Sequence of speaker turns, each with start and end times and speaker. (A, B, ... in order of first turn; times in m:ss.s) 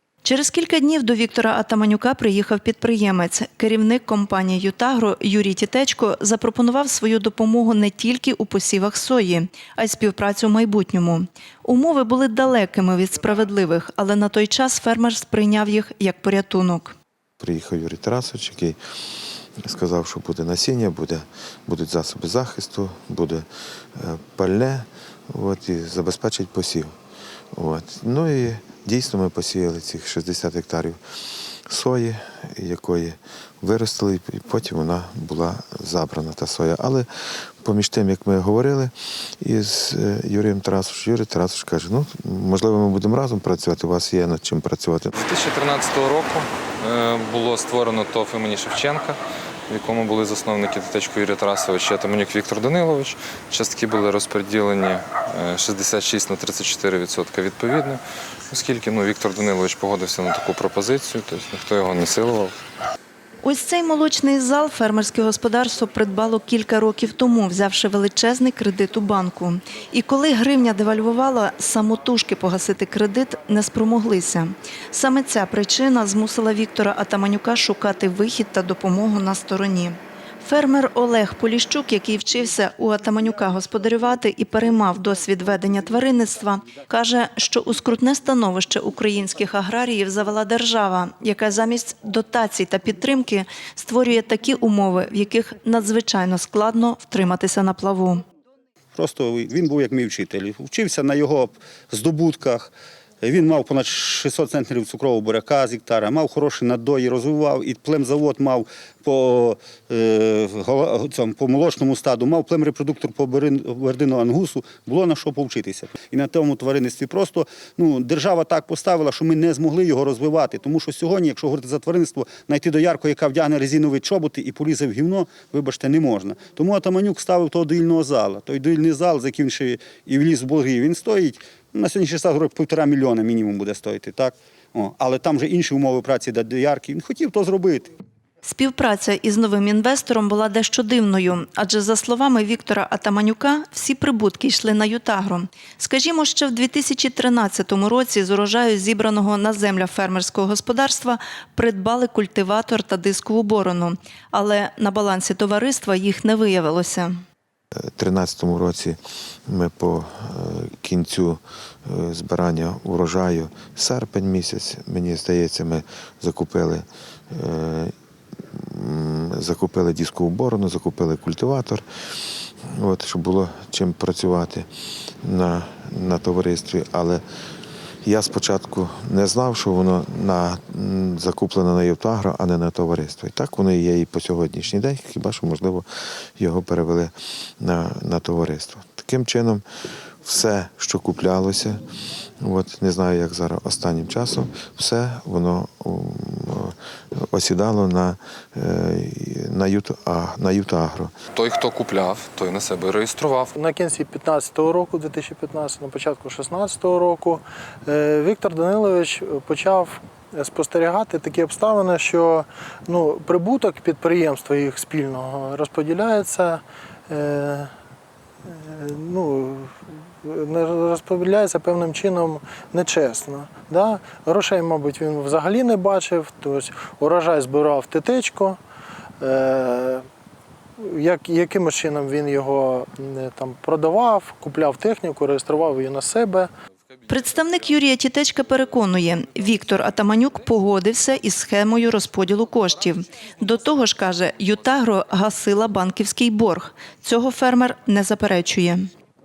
0:00.2-0:16.9 A
0:17.4-0:18.8 B
0:19.6-0:27.0 B
0:27.5-0:31.0 B
0:31.7-0:37.1 B
0:37.6-0:45.1 B
0:45.1-0:49.2 C
0:49.7-1:02.5 C
1:03.4-1:38.2 A
1:38.9-2:17.9 D
2:18.4-2:37.2 A
2:37.7-2:47.9 B
2:48.5-2:51.8 B
2:52.6-2:54.7 B
2:55.2-2:57.2 B
2:58.0-3:09.6 B
3:10.2-3:11.8 B
3:12.4-3:21.1 B
3:21.3-3:23.5 C
3:23.5-3:37.7 E
3:38.4-3:48.6 E
3:49.2-3:50.0 E
3:50.8-3:56.5 E
3:57.1-4:08.9 A